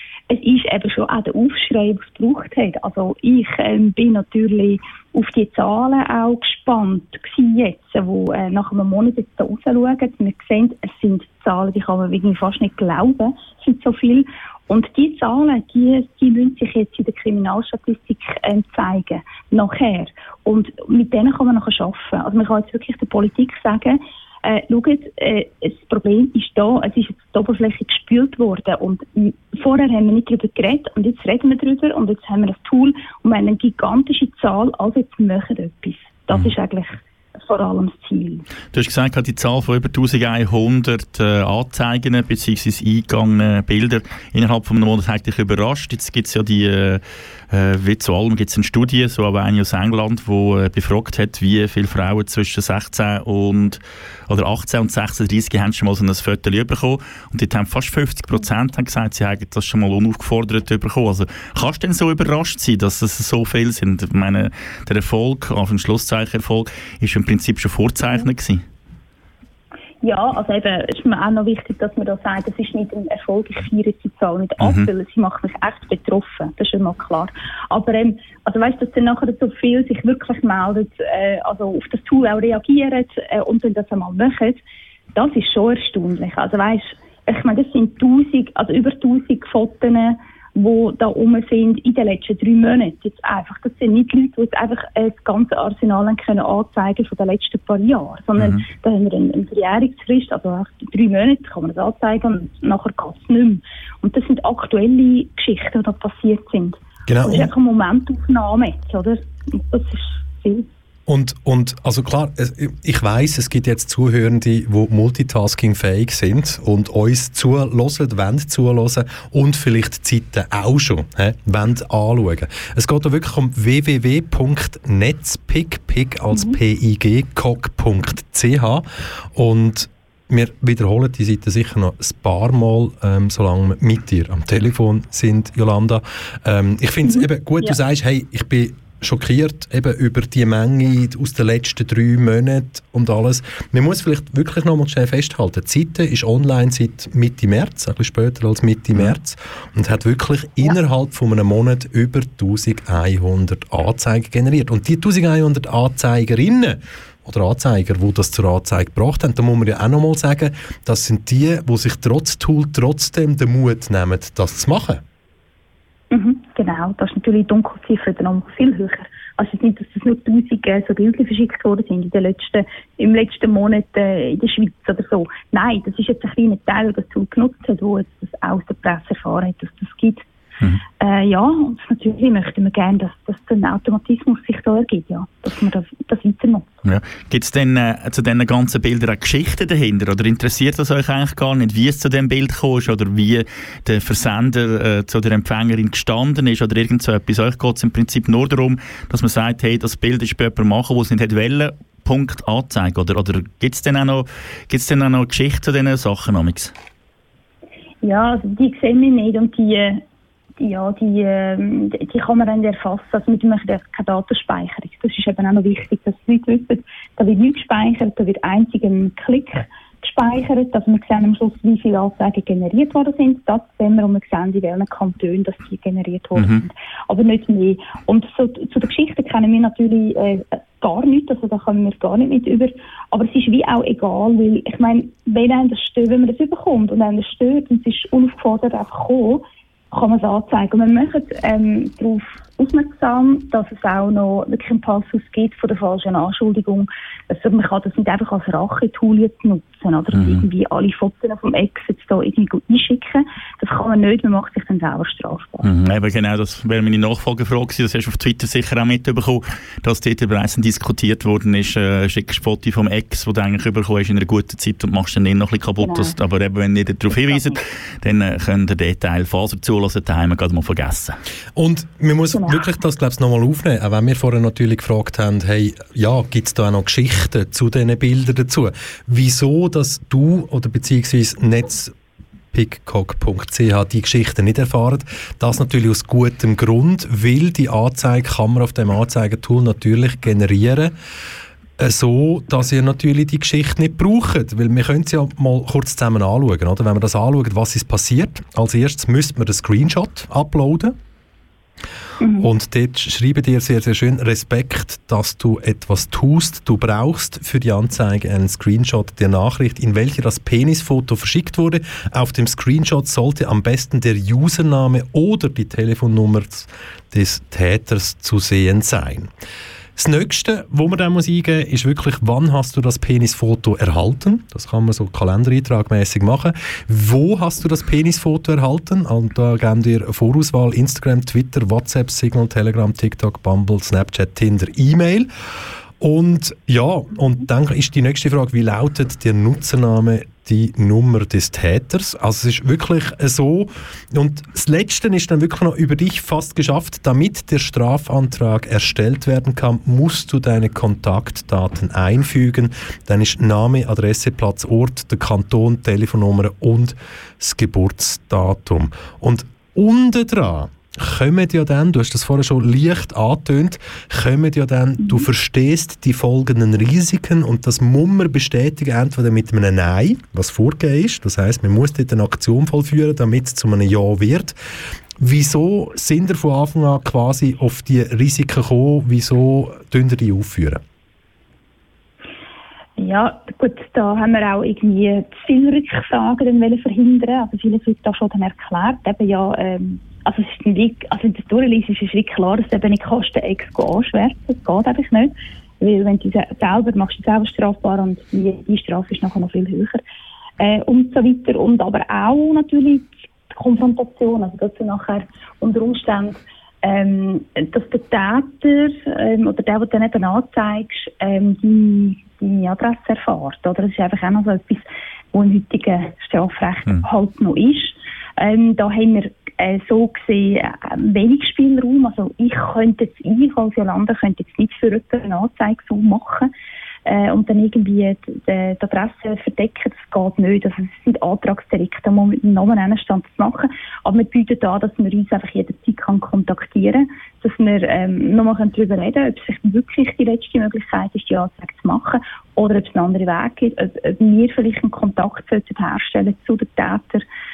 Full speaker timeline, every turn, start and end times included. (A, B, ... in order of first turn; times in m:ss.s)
0:00.3-0:38.4 A
0:38.7-1:08.6 B
1:10.0-1:24.6 A
1:14.6-1:14.9 B
1:25.1-1:50.7 A
1:38.4-1:38.6 B
1:47.1-1:47.5 C
1:51.1-2:45.0 C
2:17.1-2:17.8 A
2:46.1-3:00.2 A
3:01.0-3:06.7 A
3:06.8-3:26.7 B
3:28.0-3:30.0 A
3:30.6-4:15.6 A
3:46.4-3:46.6 B
4:10.1-4:10.4 B
4:15.6-4:31.2 B
4:25.8-4:26.1 A
4:27.2-4:27.6 A
4:31.6-4:41.9 C
4:32.3-4:32.6 A
4:42.5-4:50.9 C
4:51.8-5:01.0 C
5:02.2-5:02.5 A
5:02.4-5:19.3 C
5:20.0-5:35.3 C
5:36.0-6:14.6 C
6:15.2-6:20.8 C
6:23.0-6:40.0 A
6:40.6-7:06.5 A
7:07.0-7:27.2 A